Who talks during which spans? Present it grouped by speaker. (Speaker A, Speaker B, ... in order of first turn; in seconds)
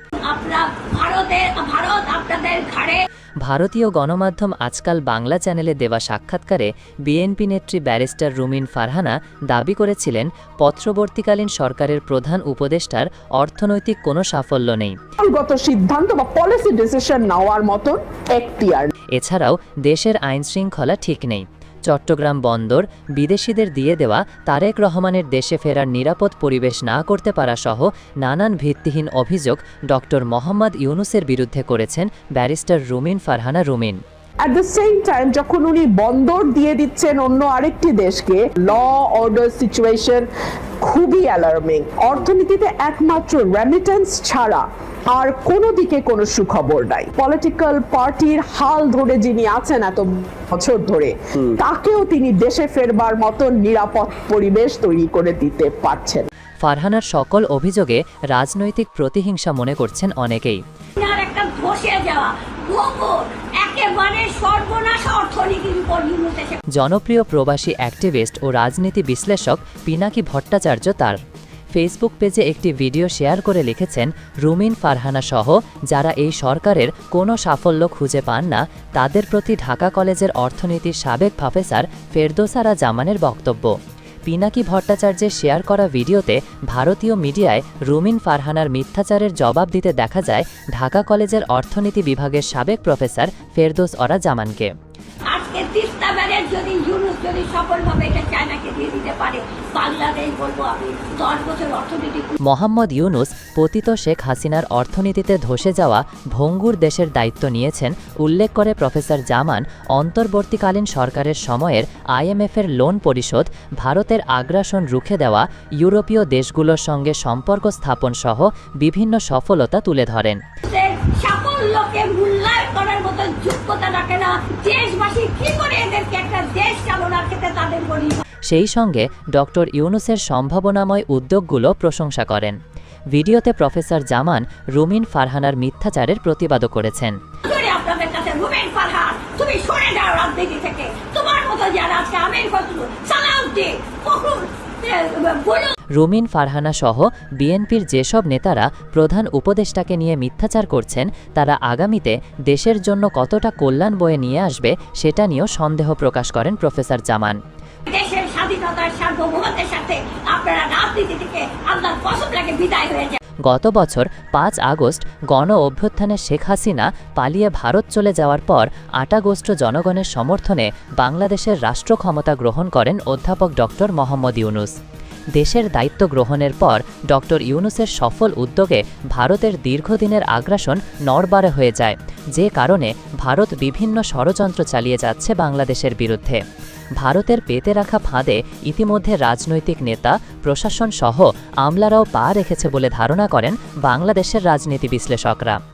Speaker A: 0.2-3.0, 61.0-66.6, 95.2-102.3, 120.7-128.2, 137.4-145.7, 157.9-163.2
Speaker B: 3.4-14.9, 19.1-34.0, 56.6-60.6, 66.8-71.2, 71.7-83.7, 84.3-94.7, 102.4-120.4, 128.5-132.6, 133.1-137.1, 145.9-157.4, 163.5-174.7, 175.4-186.4, 187.0-195.6
Speaker C: 15.2-18.9, 34.4-40.3, 40.8-56.2